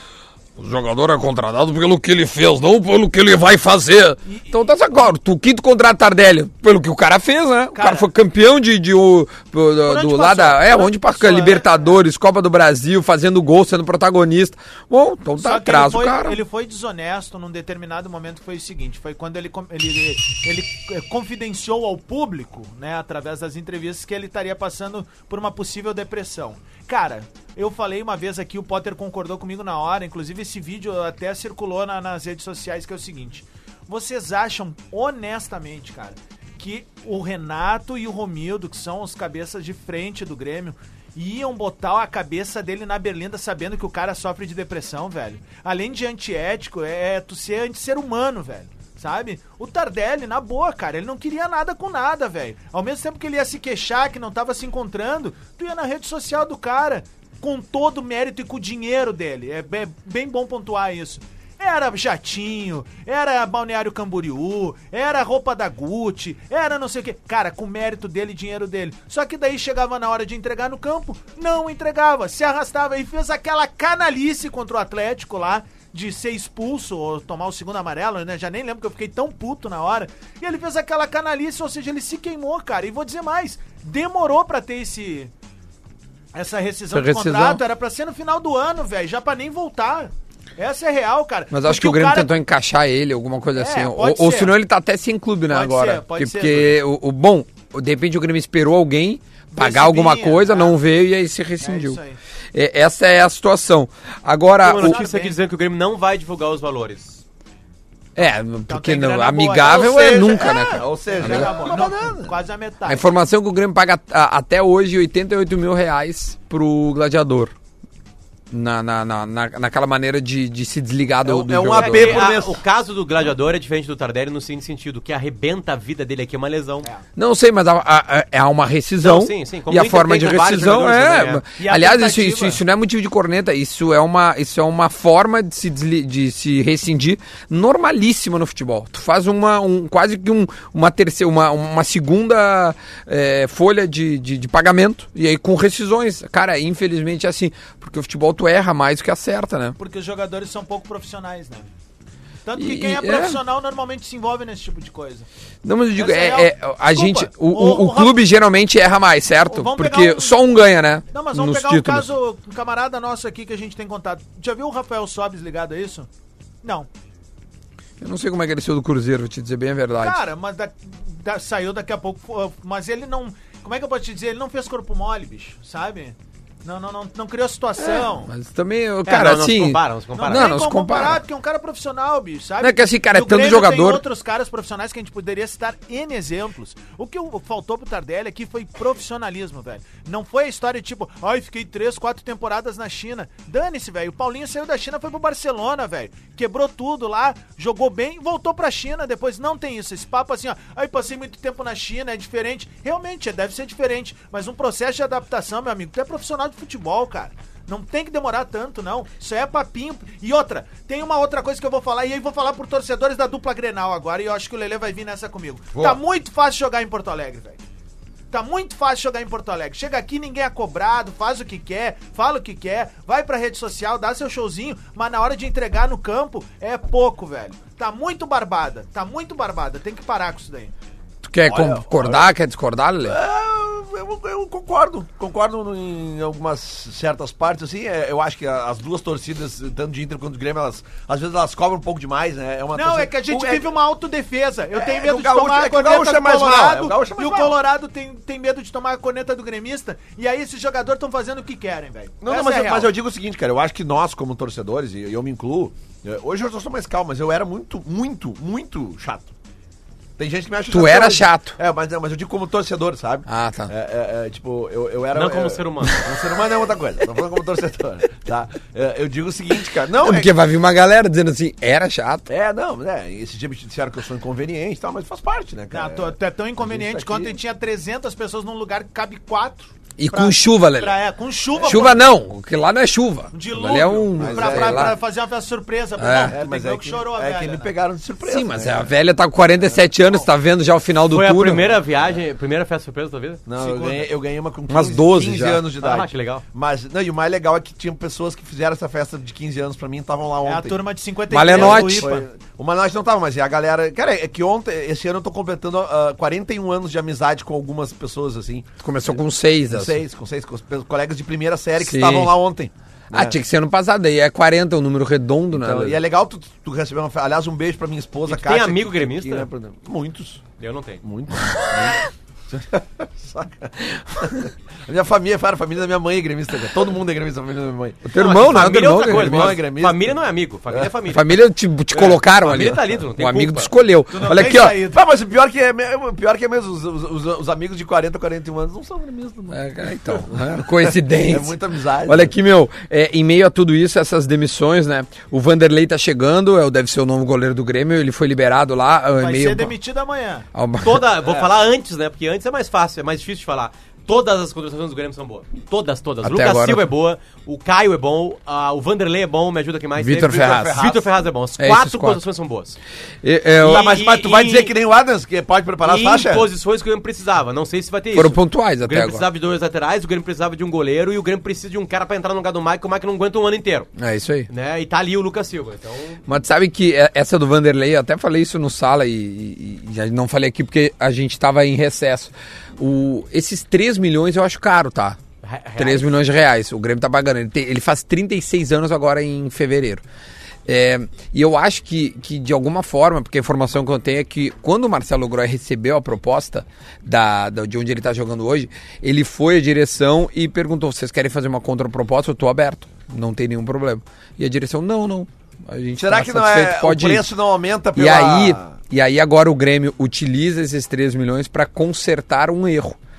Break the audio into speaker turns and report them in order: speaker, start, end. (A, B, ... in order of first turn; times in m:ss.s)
0:00.6-0:16.4 A
0:04.2-0:05.1 B
0:07.7-0:08.1 B
0:09.8-0:12.0 B
0:15.4-1:25.3 B
1:26.3-1:32.3 B
1:26.9-1:27.6 A
1:31.5-1:42.0 A
1:33.6-1:34.6 B
1:35.5-1:36.8 B
1:39.5-1:40.8 B
1:41.6-1:42.2 B
1:42.5-1:45.0 A
1:44.6-1:47.2 C
1:44.8-1:45.4 B
1:48.2-1:51.6 A
1:48.2-1:53.1 B
1:49.6-1:52.3 D
1:52.9-1:57.5 A
1:58.5-2:02.4 A
2:01.2-2:02.6 D
2:01.7-2:06.9 C
2:07.2-2:29.8 A
2:09.0-2:11.4 C
2:11.6-2:12.6 B
2:29.8-2:31.7 B
2:32.5-2:35.3 B
2:32.6-2:33.4 A
2:35.6-2:42.1 A
2:36.0-2:38.2 B
2:39.5-2:40.4 B
2:41.1-2:46.1 B
2:46.6-2:46.9 B
2:48.0-2:50.2 A
2:50.0-2:58.3 B
2:57.8-3:01.2 A
2:59.1-3:00.5 C
3:00.2-3:37.6 B
3:02.6-3:04.0 A
3:35.7-3:36.0 D
3:38.3-3:50.7 B
3:51.2-3:53.2 A
3:51.5-3:52.3 D
3:53.0-4:03.7 D
4:02.7-4:12.9 B
4:04.8-4:07.6 D
4:12.2-4:19.3 D
4:20.2-4:30.3 D
4:20.7-4:21.6 A
4:23.3-4:23.7 A
4:25.1-4:26.1 C
4:29.9-4:32.3 A
4:32.3-4:37.4 D
4:35.7-4:42.0 B
4:40.0-4:41.0 A
4:41.6-4:42.1 D
4:41.6-4:45.0 A
4:43.3-4:47.7 B
4:44.2-4:45.0 D
4:46.0-4:46.4 A
4:46.3-4:48.9 D
4:48.2-4:51.8 A
4:51.1-4:53.4 C
4:53.5-5:00.8 D
4:53.5-4:54.1 B
4:54.7-4:55.6 A
4:55.8-4:56.4 C
5:00.4-5:02.2 B
5:01.3-5:02.1 A
5:01.5-5:13.4 D
5:08.8-5:10.0 A
5:11.8-5:12.4 A
5:13.1-5:16.0 A
5:15.5-5:20.4 D
5:18.3-5:19.5 C
5:20.6-5:21.0 C
5:21.0-5:30.9 D
5:28.0-5:29.6 A
5:28.2-5:31.4 C
5:31.1-5:34.8 A
5:31.9-5:33.7 C
5:34.1-5:35.0 B
5:34.9-5:42.3 D
5:39.5-5:49.8 A
5:49.2-5:50.5 B
5:50.5-5:51.1 A
5:50.8-6:02.8 C
5:56.2-5:56.9 A
6:00.0-6:00.9 A
6:01.6-6:02.2 A
6:03.2-6:03.9 A
6:03.6-6:06.5 D
6:03.6-6:04.7 C
6:05.8-6:13.9 C
6:08.1-6:09.3 A
6:14.0-6:14.5 A
6:14.5-6:16.2 C
6:16.3-6:25.2 A
6:25.4-6:26.1 C
6:25.8-6:30.0 A
6:30.7-6:47.3 A
6:46.0-6:48.8 D
6:47.9-6:53.0 A